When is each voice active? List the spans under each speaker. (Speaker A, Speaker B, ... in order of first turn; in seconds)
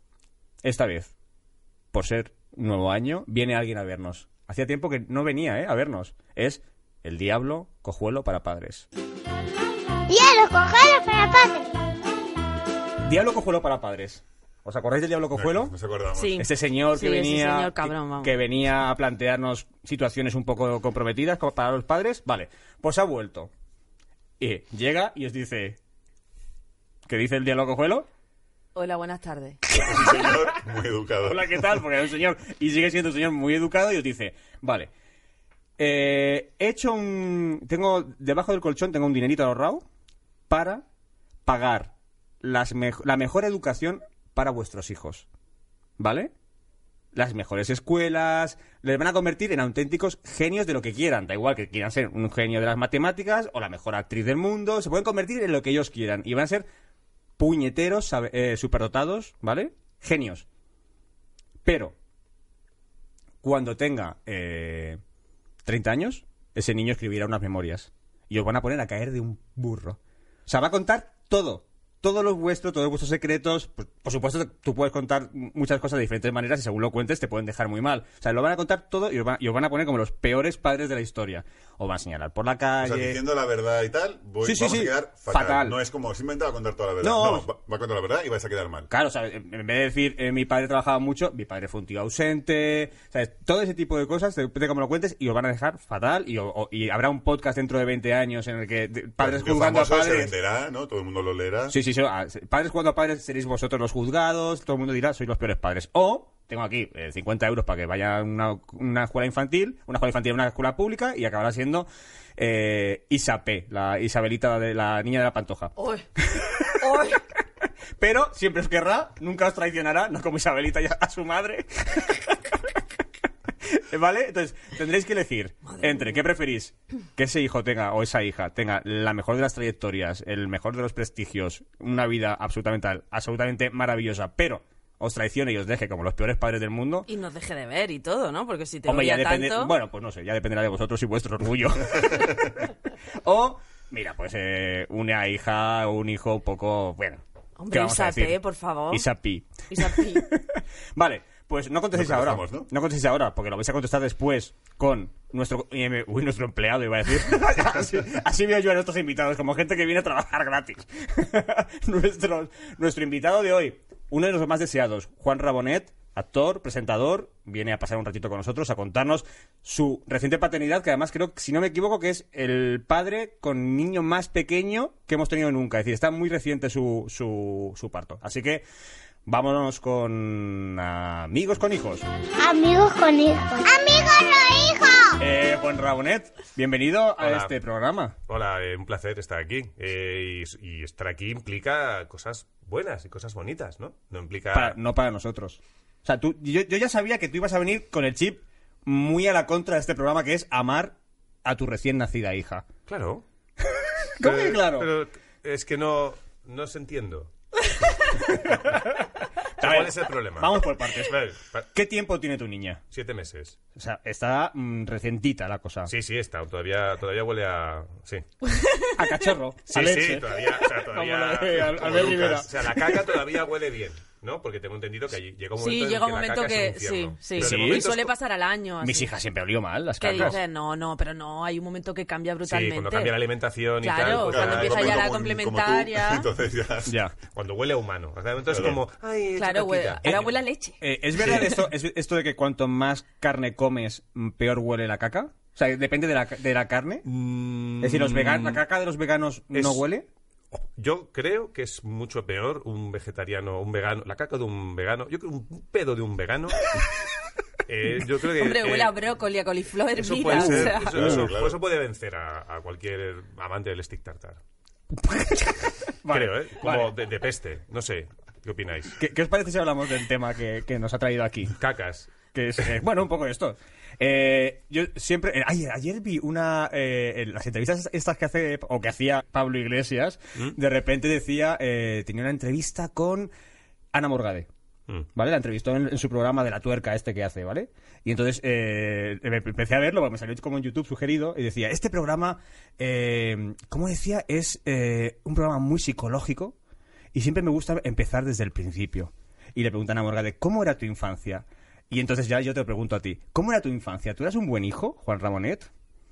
Speaker A: 0.6-1.1, 1.9-8.9, 13.0-15.7, 16.4-23.5, 24.4-25.8, 27.1-28.1, 29.7-30.5, 31.2-34.9, 35.8-39.8, 40.5-40.8, 41.5-45.3, 46.0-46.3, 47.1-56.6, 57.4-60.5, 61.6-61.9, 63.4-65.0, 65.6-83.2, 84.4-85.8, 87.0-87.5, 88.9-100.3, 101.7-117.2, 118.0-122.7, 123.6-137.1, 138.8-148.4, 148.9-178.6, 179.2-182.1, 185.2-188.1, 194.5-202.7, 203.7-204.9, 208.2-209.0, 209.6-211.1, 211.7-212.8, 213.7-215.9, 218.9-222.9, 227.3-227.8, 228.8-230.4, 236.8-237.1, 240.0-247.0, 247.8-250.1, 260.3-261.3, 264.9-266.9, 269.0-271.5, 272.3-283.3, 283.9-284.5, 285.1-296.6, 297.1-305.7
Speaker B: 10.1-11.8, 182.4-185.2
Speaker C: 15.3-16.5, 29.8-31.7, 82.8-88.9, 99.2-101.8, 151.9-152.7, 221.9-222.4, 234.0-237.0, 238.5-238.8, 260.4-261.6
Speaker D: 16.1-18.3, 28.7-29.6, 115.8-116.0, 116.8-117.2, 125.7-126.1, 137.1-139.7, 147.6-149.1, 149.7-150.3, 218.4-219.1, 225.6-229.1, 230.0-233.2, 233.8-236.3, 239.3-241.5, 258.3-261.1
Speaker E: 187.2-187.5, 188.3-194.8, 202.9-203.2, 204.2-207.3, 208.1-208.8, 209.6-211.7, 212.9-213.6, 215.9-218.2, 219.7-228.1, 232.4-235.1, 237.3-240.4, 241.2-241.5, 247.1-248.6, 249.5-249.8, 250.5-256.8, 257.6-259.0, 259.9-264.4, 266.1-268.9, 271.6-272.1